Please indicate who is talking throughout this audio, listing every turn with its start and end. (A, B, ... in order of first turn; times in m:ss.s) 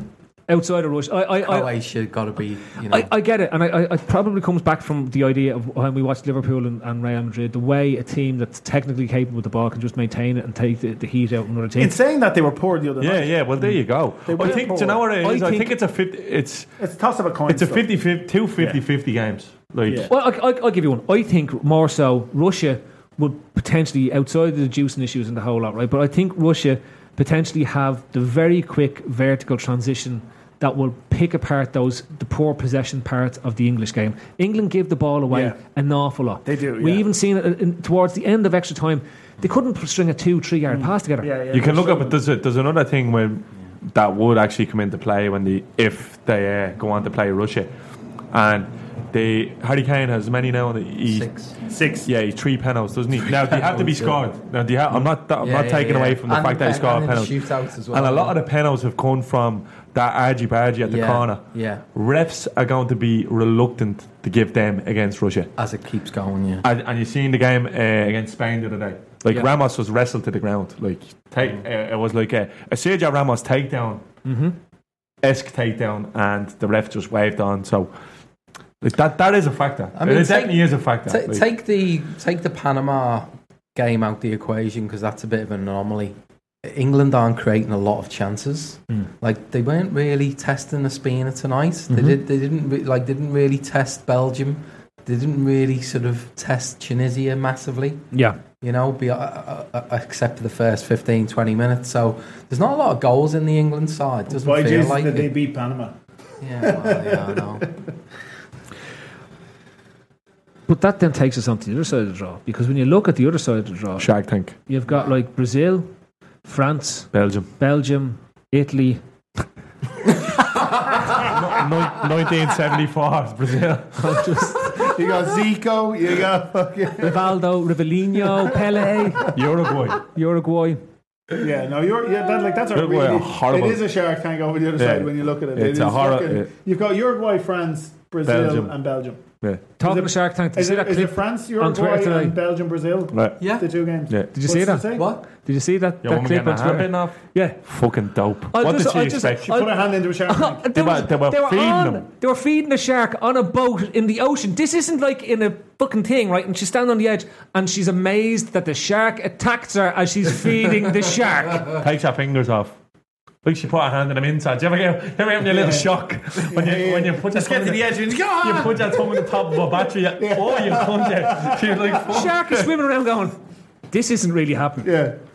0:00.5-0:01.7 A
0:01.4-0:03.1 B
0:02.9-0:11.9 A
0:11.8-0:15.0 C
0:13.0-0:16.7 D
0:15.2-0:15.7 A
0:16.8-0:17.8 C
0:17.5-0:20.1 D
0:19.8-0:20.1 C
0:20.1-0:41.3 A
0:35.3-0:35.6 C
0:36.4-0:37.0 C
0:40.7-0:42.2 C
0:41.5-0:47.7 D
0:48.3-0:51.3 D
0:51.0-0:51.6 B
0:51.7-0:52.1 C
0:52.0-0:57.4 D
0:53.2-0:54.2 B
0:55.4-0:58.4 B
0:57.9-1:01.4 D
1:00.8-1:01.8 B
1:01.9-1:05.5 D
1:05.6-1:06.6 B
1:06.6-1:14.0 D
1:14.2-1:14.5 A
1:15.2-1:17.9 D
1:18.8-1:21.4 D
1:19.9-1:38.0 B
1:31.9-1:32.2 A
1:38.1-1:38.4 A
1:38.6-1:45.3 B
1:44.3-1:45.9 C
1:46.4-1:47.7 B
1:46.6-1:47.7 C
1:50.7-1:54.1 A
1:54.0-1:54.5 D
1:54.7-1:55.9 A
1:56.4-1:59.0 A
1:57.1-1:57.5 D
2:01.1-2:04.2 D
2:04.0-2:04.9 A
2:04.8-2:07.3 C
2:07.0-2:09.4 A
2:09.3-2:10.0 D
2:10.0-2:10.8 A
2:11.4-2:19.2 C
2:12.7-2:13.8 D
2:14.8-2:16.5 D
2:18.2-2:18.7 D
2:19.8-2:22.4 A
2:19.8-2:25.1 C
2:23.1-2:23.4 D
2:23.4-2:23.7 B
2:24.3-2:27.6 A
2:24.9-2:25.2 B
2:26.0-2:29.5 D
2:28.5-2:29.7 A
2:29.4-2:30.6 C
2:30.3-2:41.8 A
2:30.7-2:32.0 D
2:41.7-2:42.7 D
2:43.4-2:52.6 D
2:45.5-2:52.2 C
2:52.1-2:53.3 A
2:53.9-2:54.9 A
2:54.8-2:55.1 C